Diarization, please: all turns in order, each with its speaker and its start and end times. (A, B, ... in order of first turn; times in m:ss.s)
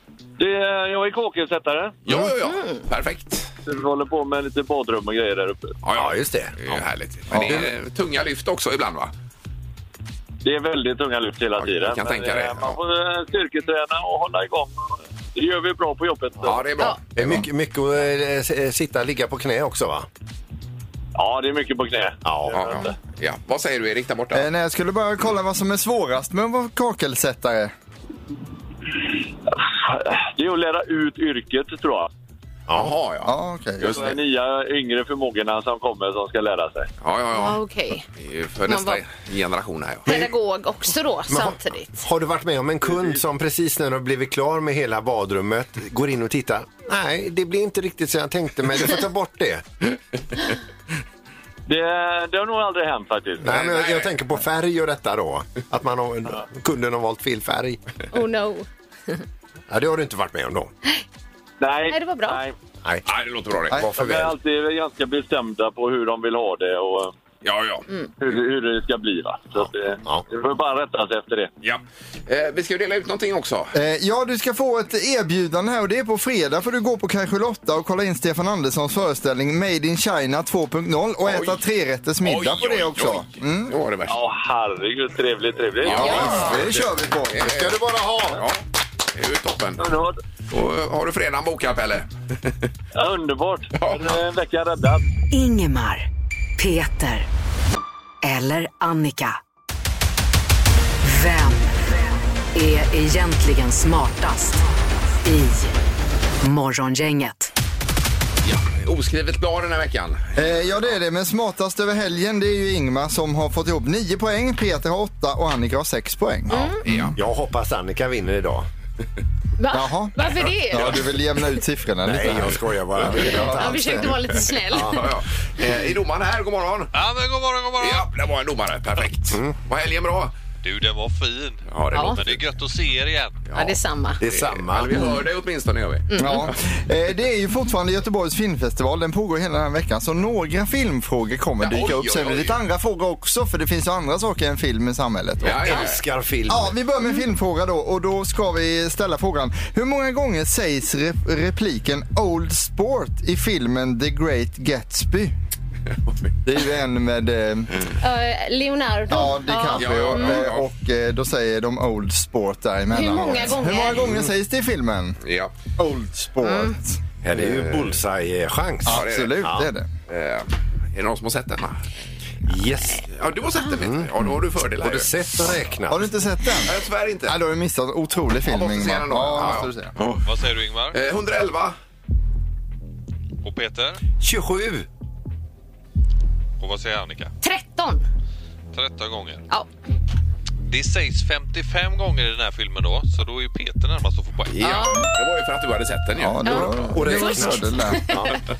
0:00.4-0:02.0 A
0:02.0-0:03.5 B
0:02.4-0:02.8 C
0:03.6-0:05.8 A
0:05.8-0:09.1 B
0:06.0-0:06.8 D
0:07.3-0:07.7 D
0:10.4-0:16.7 A
0:11.6-0:12.8 B
0:16.4-0:17.4 B
0:17.2-0:20.1 D
0:21.1-0:22.9 A
0:22.2-0:22.8 D
0:22.5-0:24.5 B
0:24.3-0:27.7 E
0:29.8-0:32.1 A
0:32.7-0:32.9 D
0:32.7-0:34.1 B
0:33.2-0:34.1 E
0:33.8-0:36.9 A
0:37.0-0:37.6 B
0:37.3-0:38.0 C
0:38.1-0:40.3 B
0:38.7-0:39.0 C
0:40.0-0:42.0 C
0:41.3-0:49.6 D
0:51.6-0:53.5 A
0:53.4-0:57.8 D
0:53.4-0:54.1 B
0:58.1-0:59.2 C
0:59.7-1:00.7 D
1:01.6-1:02.6 A
1:01.9-1:02.4 C
1:03.0-1:04.0 B
1:03.7-1:04.4 D
1:03.9-1:07.1 A
1:07.4-1:07.9 B
1:08.2-1:11.5 A
1:11.6-1:13.7 B
1:13.7-1:23.7 E
1:21.2-1:21.6 B
1:22.2-1:24.2 B
1:24.1-1:26.4 A
1:25.8-1:27.7 B
1:25.9-1:27.6 E
1:26.1-1:26.5 D
1:27.4-1:28.4 D
1:28.3-1:28.6 B
1:29.1-1:29.8 B
1:29.8-1:30.2 A
1:30.5-1:32.5 B
1:32.9-1:35.0 A
1:33.7-1:34.0 B
1:35.3-1:36.1 F
1:36.6-1:37.3 F
1:38.2-1:39.4 F
1:41.0-1:41.7 F
1:42.5-1:44.6 F
1:45.2-1:45.7 F
1:46.4-1:47.5 F
1:48.4-1:50.5 B
1:50.4-1:57.1 E
1:56.5-1:56.8 C
1:56.5-1:57.2 B
1:57.1-1:58.7 D
1:59.6-2:01.0 C
1:59.7-2:04.1 E
2:02.0-2:04.1 D
2:03.5-2:05.0 C
2:04.7-2:05.1 D
2:04.7-2:06.9 B
2:06.9-2:08.1 G
2:07.8-2:10.3 B
2:09.3-2:09.6 D
2:10.6-2:13.4 G
2:11.7-2:12.4 B
2:11.9-2:12.2 C
2:13.5-2:16.5 B
2:13.5-2:14.2 C
2:14.2-2:15.2 D
2:16.1-2:16.5 C
2:16.2-2:25.9 E
2:21.6-2:22.6 B
2:25.4-2:26.0 B
2:25.4-2:26.8 D
2:26.5-2:35.3 E
2:36.4-2:37.8 E
2:38.0-2:40.4 C
2:39.1-2:45.2 E
2:39.8-2:40.7 B
2:42.9-2:44.0 C
2:45.2-2:45.5 B
2:45.8-2:47.8 E
2:46.4-2:46.7 C
2:47.2-2:49.7 D
2:48.8-2:49.9 E
2:48.8-2:49.4 B
2:50.1-2:51.9 B
2:52.4-2:53.1 D
2:53.0-2:55.1 B
2:53.6-2:54.2 D
2:54.7-2:56.1 D
2:55.9-2:59.9 E
2:56.6-2:57.3 B
2:58.4-3:00.3 B
3:00.2-3:01.0 G
3:00.9-3:01.8 B
3:03.4-3:04.0 G
3:04.2-3:04.9 D
3:06.6-3:07.3 G
3:07.4-3:08.0 C
3:08.7-3:09.4 G
3:10.7-3:14.8 G
3:14.5-3:16.9 B
3:14.6-3:15.0 C
3:16.2-3:18.2 E
3:16.4-3:18.2 C
3:16.7-3:18.4 D